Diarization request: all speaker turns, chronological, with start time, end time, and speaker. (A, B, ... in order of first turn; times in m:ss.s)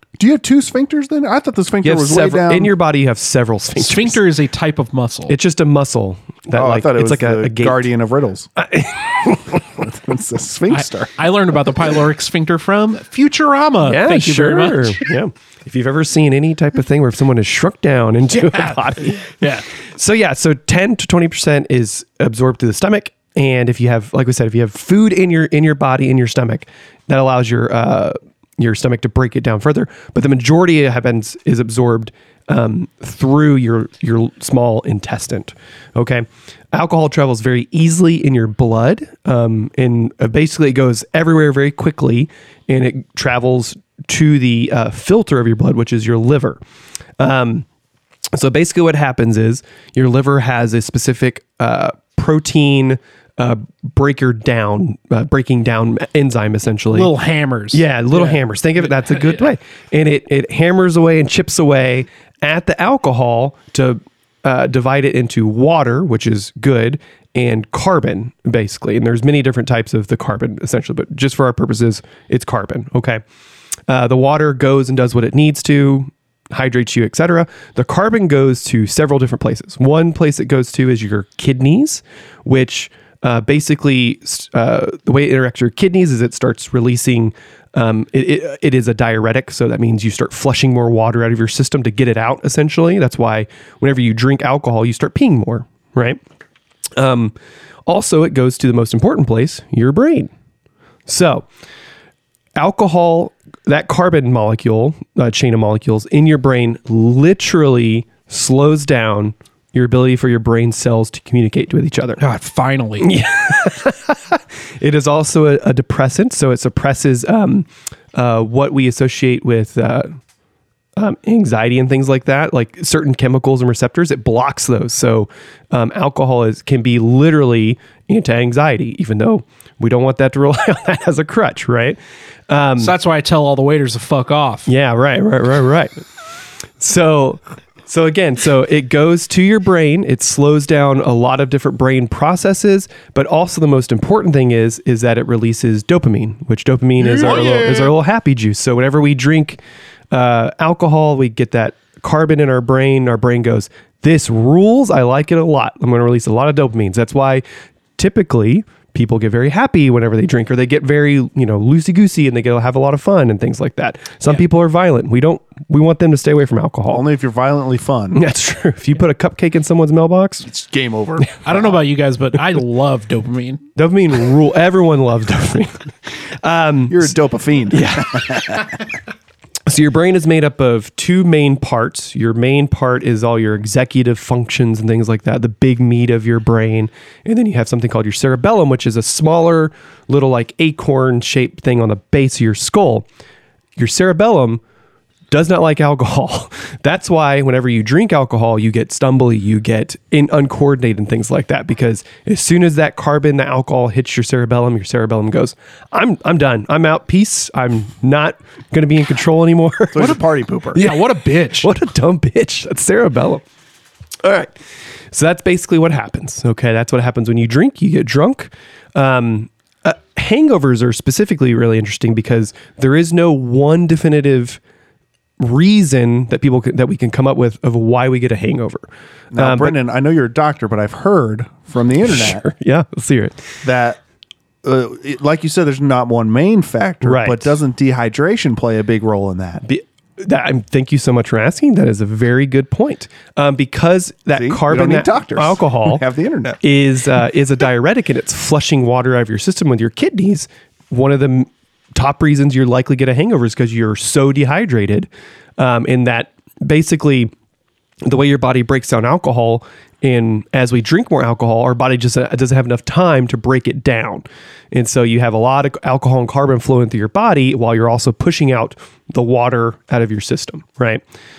0:00.2-0:02.7 A
0:01.8-0:04.2 B
0:03.8-0:05.4 C
0:05.3-0:07.9 B
0:06.6-0:08.5 A
0:08.6-0:09.6 B
0:09.8-0:11.2 A
0:10.7-0:15.1 C
0:13.8-0:46.6 B
0:18.4-0:19.6 C
0:47.2-0:47.6 B
0:48.3-0:57.1 B
0:56.9-0:59.4 C
0:57.7-1:13.2 B
1:13.9-1:36.2 B
1:37.0-1:37.3 B
1:37.9-1:40.3 B
1:41.1-1:41.5 B
1:42.6-1:52.2 B
1:52.2-1:53.1 C
1:53.0-2:00.2 B
2:01.0-2:12.9 B
2:12.8-2:14.7 C
2:14.7-2:16.0 B
2:16.8-2:29.6 B
2:27.3-2:27.8 C
2:30.1-2:37.4 B
2:38.0-2:47.0 B
2:46.9-2:48.2 A
2:48.1-2:50.5 B
2:50.4-2:51.8 A
2:51.4-2:53.6 C
2:53.8-2:57.1 B
2:56.9-2:58.7 A
2:57.7-2:58.6 B
2:59.7-3:13.1 B
3:13.8-3:14.6 B
3:15.3-3:30.2 B
3:29.9-3:30.8 A
3:30.7-3:31.0 B
3:30.8-3:31.7 C
3:31.6-3:33.4 B
3:34.2-3:34.5 B
3:35.1-3:44.6 B
3:45.4-3:49.8 B
3:49.3-3:52.4 A
3:52.1-3:53.4 B
3:53.6-3:54.0 A
3:54.6-3:59.6 A
3:57.0-3:57.5 B
3:59.6-4:06.0 B
4:04.3-4:06.6 A
4:06.6-4:17.3 B
4:18.0-4:31.0 B